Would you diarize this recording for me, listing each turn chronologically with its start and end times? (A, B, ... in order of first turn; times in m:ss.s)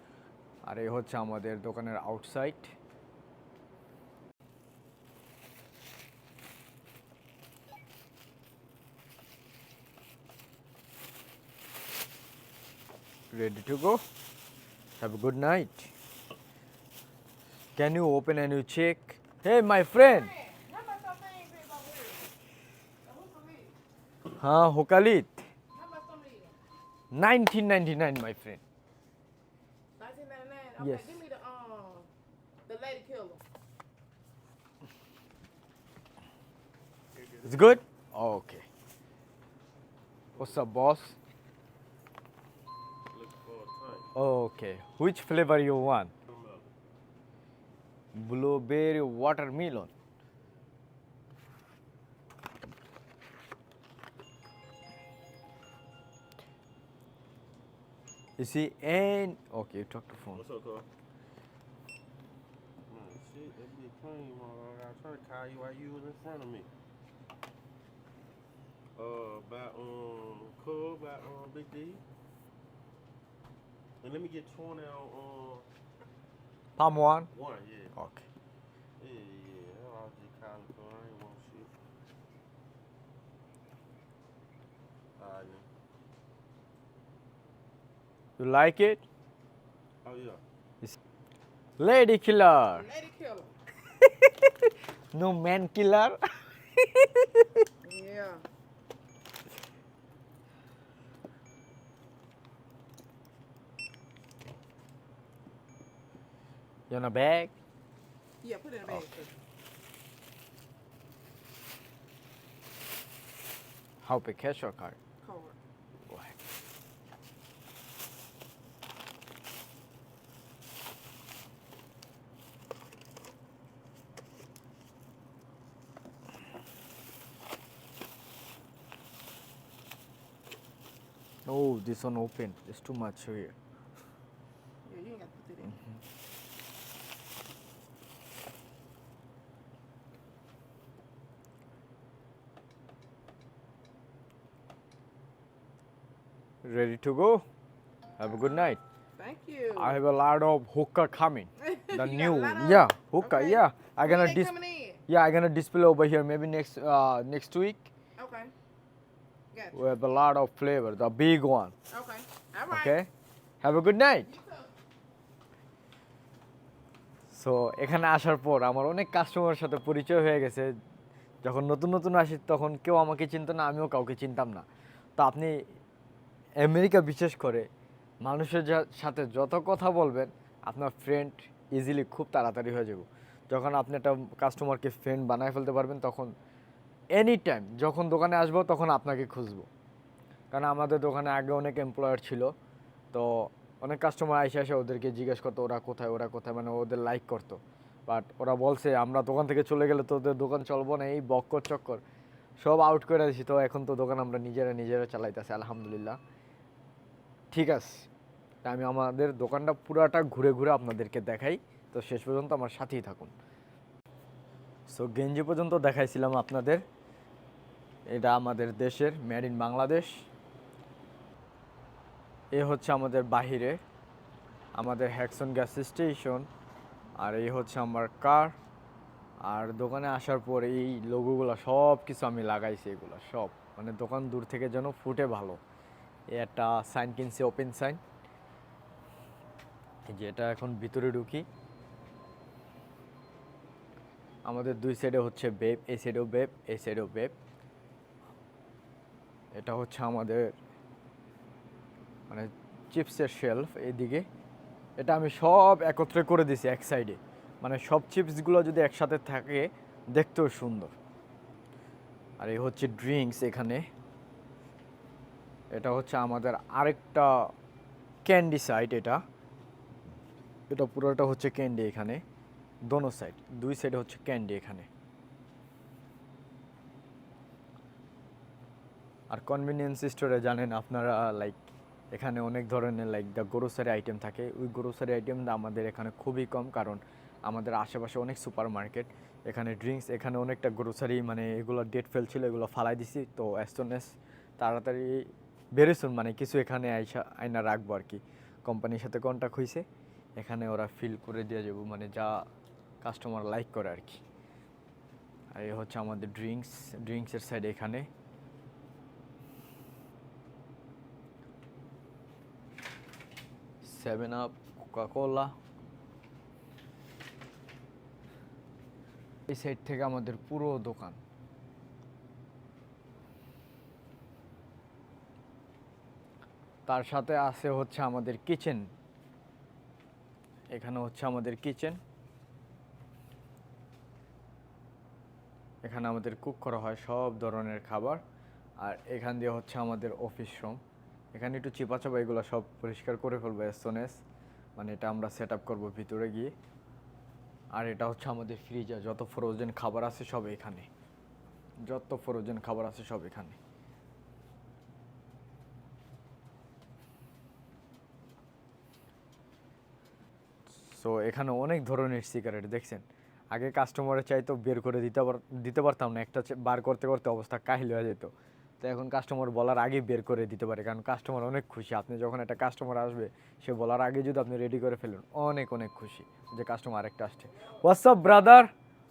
0:00.7-0:02.7 A
0:13.3-0:14.0 A
0:15.0-0:15.9 A
0:17.8-0:20.4 A
0:20.3-0:22.3 B
0:23.0-0:23.7 B
0:24.3-0:25.4 A
0:25.7-0:26.6 B
0:27.1-0:28.6 A
0:30.0-0:32.1 B
0:30.8-0:31.2 A
0:32.7-0:33.4 B
0:37.2-0:37.7 C
0:37.4-0:38.7 A
0:40.4-0:41.2 A
0:43.1-0:44.1 C
0:44.2-0:46.1 A
0:46.3-0:46.7 C
0:48.1-0:49.9 A
0:58.4-1:00.4 A
1:00.3-1:00.9 C
1:02.9-1:06.7 C
1:09.0-1:12.0 C
1:14.0-1:15.7 C
1:16.8-1:17.3 A
1:17.3-1:17.9 C
1:18.0-1:18.3 A
1:19.0-1:21.7 C
1:25.2-1:25.7 C
1:28.4-1:29.0 A
1:30.0-1:30.4 C
1:31.8-1:32.9 A
1:32.7-1:33.5 B
1:35.1-1:37.5 A
1:37.8-1:38.5 B
1:46.9-1:47.5 A
1:48.4-1:49.3 B
1:54.0-1:55.0 A
1:55.2-1:55.6 B
1:56.1-1:56.4 A
2:11.5-2:13.6 A
2:14.8-2:15.8 B
2:26.6-2:27.4 A
2:28.2-2:28.8 A
2:29.2-2:30.0 B
2:29.8-2:34.5 A
2:31.7-2:35.0 B
2:35.1-2:37.9 A
2:38.2-2:38.5 B
2:39.7-2:41.8 A
2:41.9-2:43.0 B
2:42.7-2:43.1 A
2:43.6-2:44.3 A
2:44.3-2:44.7 B
2:47.3-2:50.8 A
2:51.4-2:54.7 A
2:55.2-2:55.6 A
2:56.6-2:57.7 A
2:58.2-3:06.3 A
3:07.1-3:09.7 A
3:10.5-3:12.5 A
3:13.1-3:22.0 A
3:22.6-3:26.2 A
3:27.5-3:28.1 A
3:28.6-3:33.3 A
3:34.9-3:36.8 A
3:38.1-3:40.1 A
3:42.5-3:43.8 A
3:44.8-3:46.5 A
3:47.2-3:48.5 A
3:49.5-3:55.6 A
3:56.3-3:58.0 A
4:00.1-4:01.4 A
4:04.4-4:07.4 A
4:09.6-4:10.5 A
4:12.3-4:14.3 A
4:15.0-4:20.9 A
4:22.4-4:23.9 A
4:25.7-4:27.5 A
4:28.2-4:29.2 A
4:30.7-4:32.2 A
4:32.9-4:34.9 A
4:39.3-4:41.6 A
4:42.1-4:59.9 A
5:00.4-5:02.4 A
5:03.0-5:04.2 A
5:05.5-5:08.1 A
5:13.8-5:15.6 A
5:19.5-5:21.2 A
5:26.9-5:28.9 A
5:30.7-5:32.0 A
5:35.8-5:38.2 A
5:38.8-5:40.8 A
5:41.3-5:44.2 A
5:44.8-5:46.5 A
5:47.8-5:50.9 A
5:51.9-5:53.6 A
6:00.7-6:18.7 A